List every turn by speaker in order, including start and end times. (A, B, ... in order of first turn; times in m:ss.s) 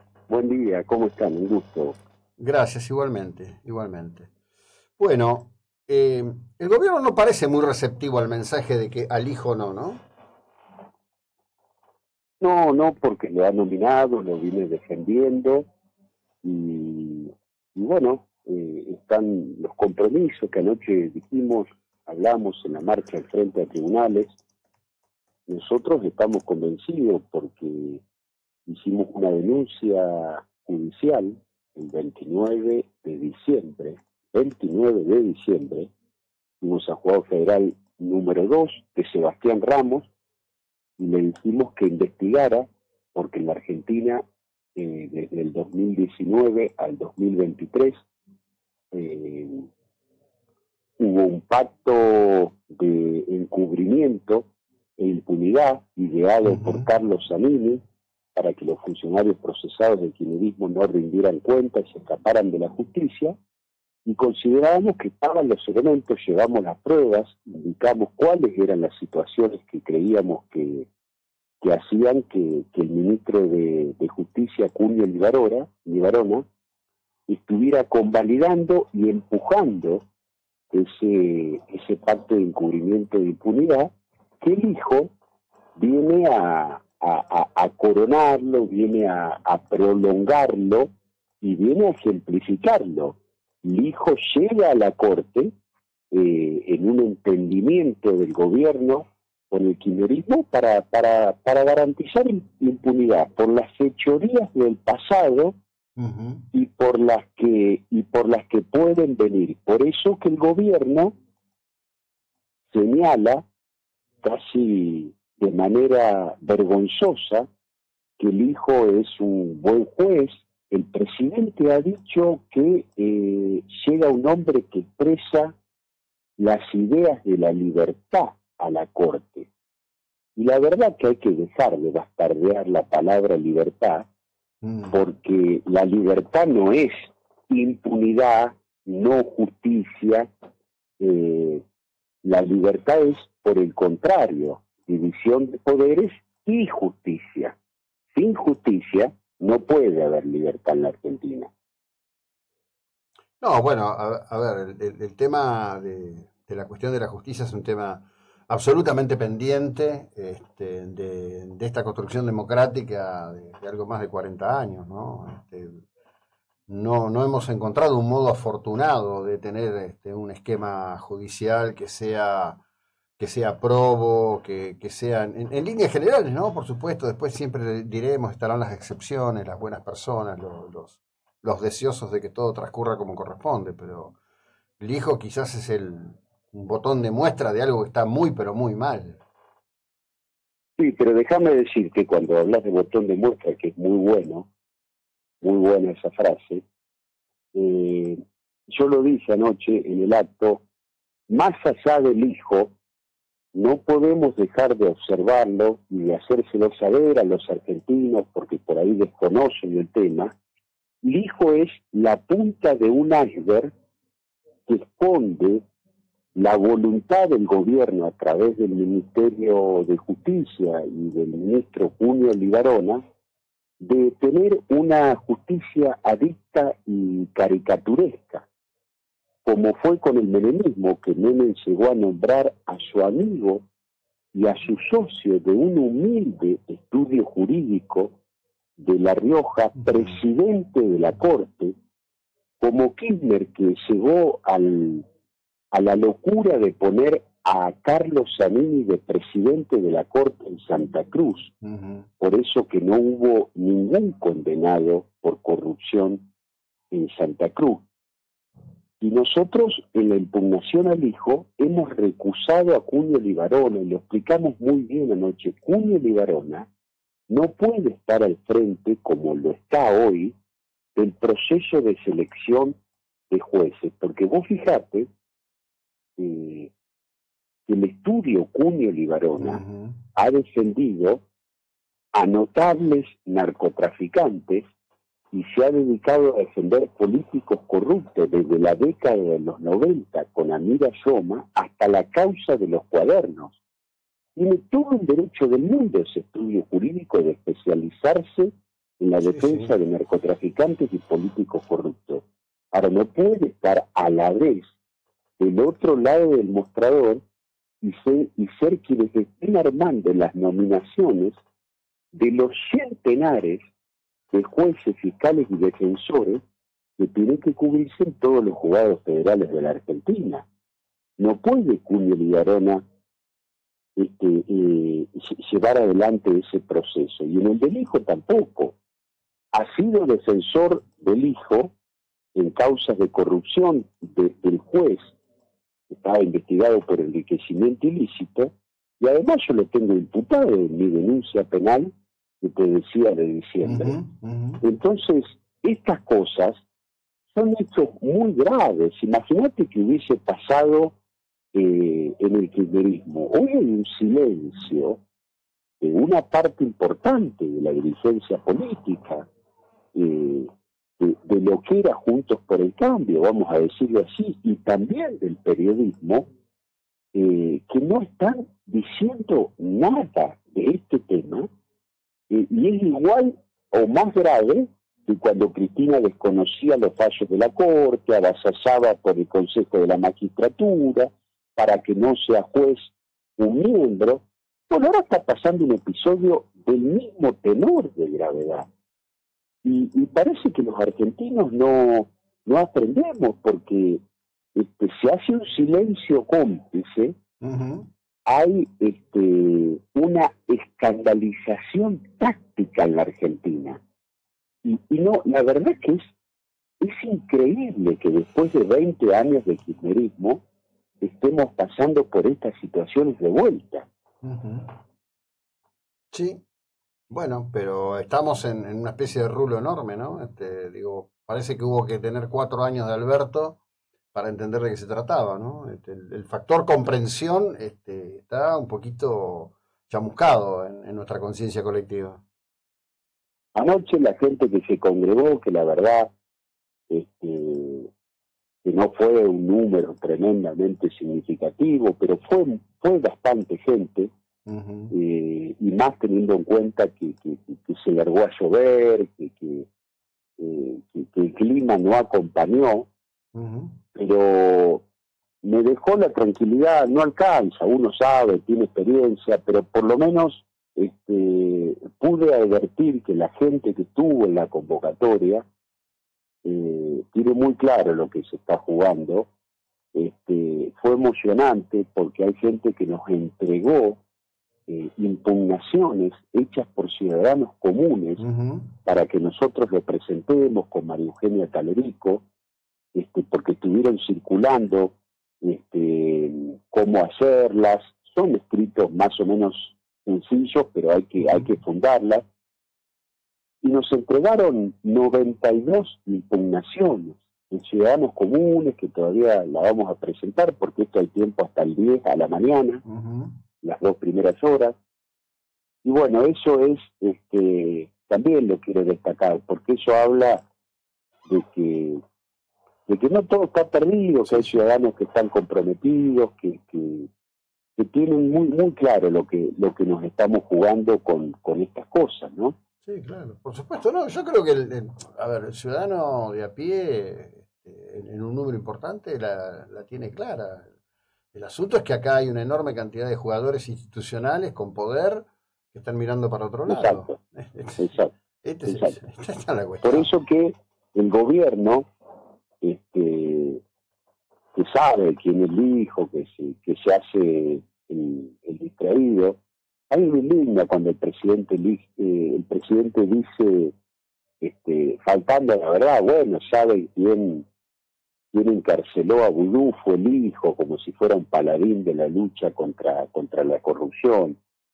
0:00.3-0:02.0 A
0:02.4-0:04.3 B
0:05.0-0:10.0 B
0:12.4-0:15.7 A
0:16.4-0:24.3 A
0:25.5-0:28.0 A
0:28.7-0:35.9 A
0:36.6-0:40.1 A
0:41.0-0:44.2 A
0:44.8-0:48.0 A
0:48.9-0:49.7 A
0:51.0-0:54.5 A
0:55.0-0:57.8 A
0:56.4-0:56.9 B
0:58.4-1:03.4 A
1:04.0-1:10.9 A
1:11.6-1:16.4 A
1:17.3-1:20.0 A
1:20.7-1:23.9 A
1:24.4-1:25.1 A
1:25.8-1:30.9 A
1:31.4-1:35.5 A
1:36.1-1:45.6 A
1:46.0-1:46.4 B
1:46.5-1:51.2 A
1:52.7-1:53.4 A
1:54.2-1:57.5 A
1:58.2-2:05.6 A
2:06.4-2:09.5 A
2:10.4-2:14.1 A
2:14.6-2:15.0 B
2:14.9-2:20.3 A
2:21.0-2:21.6 A
2:22.2-2:27.6 A
2:28.1-2:31.5 A
2:33.4-2:45.8 B
2:46.7-2:52.6 B
2:53.2-3:04.2 B
3:04.8-3:09.2 B
3:10.8-3:14.5 A
3:15.4-3:16.6 A
3:17.5-3:20.6 A
3:21.3-3:22.7 A
3:23.5-3:30.3 A
3:31.0-3:33.7 A
3:34.7-3:35.7 A
3:36.4-3:43.0 A
3:43.8-3:48.5 A
3:49.4-3:53.7 A
3:54.3-3:58.2 A
3:58.8-4:01.7 A
3:59.8-4:00.2 B
4:02.6-4:05.0 A
4:05.7-4:11.5 A
4:11.6-4:12.1 B
4:12.2-4:16.2 A
4:16.9-4:17.8 A
4:19.0-4:26.7 A
4:27.3-4:30.4 A
4:31.0-4:32.8 A
4:33.3-4:35.1 A
4:36.2-4:36.7 A
4:37.7-4:39.6 A
4:39.4-4:40.0 B
4:40.2-4:41.2 A
4:42.2-4:44.6 A
4:45.3-4:53.6 A
4:54.4-5:04.7 A
4:59.2-4:59.7 B
5:05.4-5:07.2 A
5:07.8-5:11.4 A
5:12.1-5:13.6 A
5:14.3-5:16.4 A
5:17.0-5:20.5 A
5:21.2-5:22.8 A
5:24.0-5:28.8 A
5:29.5-5:31.7 A
5:32.4-5:35.1 A
5:35.9-5:44.0 A
5:43.6-5:44.6 B
5:44.6-5:46.6 A
5:47.3-5:51.0 A
5:51.5-5:55.0 A
5:55.8-5:59.3 A
5:59.9-6:00.5 A
6:01.0-6:06.3 A
6:07.1-6:11.5 A
6:12.3-6:28.7 A
6:29.6-6:34.0 A
6:34.6-6:37.2 A
6:37.4-6:37.9 B
6:38.3-6:43.8 A
6:44.6-6:46.1 A
6:46.8-6:50.4 A
6:51.0-6:53.9 A
6:54.2-6:54.8 B
6:56.1-6:56.4 B
6:57.1-7:03.6 B
7:04.1-7:12.2 B
7:13.6-7:16.1 A
7:16.9-7:17.9 A
7:18.6-7:24.1 A
7:24.5-7:24.9 B
7:24.9-7:29.7 A
7:30.4-7:32.9 A
7:33.4-7:33.8 B
7:34.0-7:34.8 A
7:35.4-7:45.4 A
7:46.4-7:49.3 A
7:49.9-7:54.0 A
7:54.7-7:58.2 A
7:58.2-7:58.7 B
7:58.9-8:02.2 A
8:02.9-8:12.2 A
8:11.2-8:11.5 B
8:13.6-8:22.8 A
8:22.8-8:23.4 B
8:23.6-8:24.8 A
8:25.8-8:30.4 A
8:31.3-8:32.0 A
8:32.9-8:37.1 A
8:34.2-8:34.6 B
8:37.8-8:42.5 A
8:42.8-8:50.7 B
8:51.3-9:00.1 B
8:56.7-8:57.2 A
8:57.8-8:58.1 A
8:58.7-8:59.0 A
8:59.8-9:01.9 A
9:02.6-9:03.6 A
9:04.6-9:09.4 A
9:09.9-9:13.7 A
9:14.4-9:17.5 A
9:18.3-9:24.4 A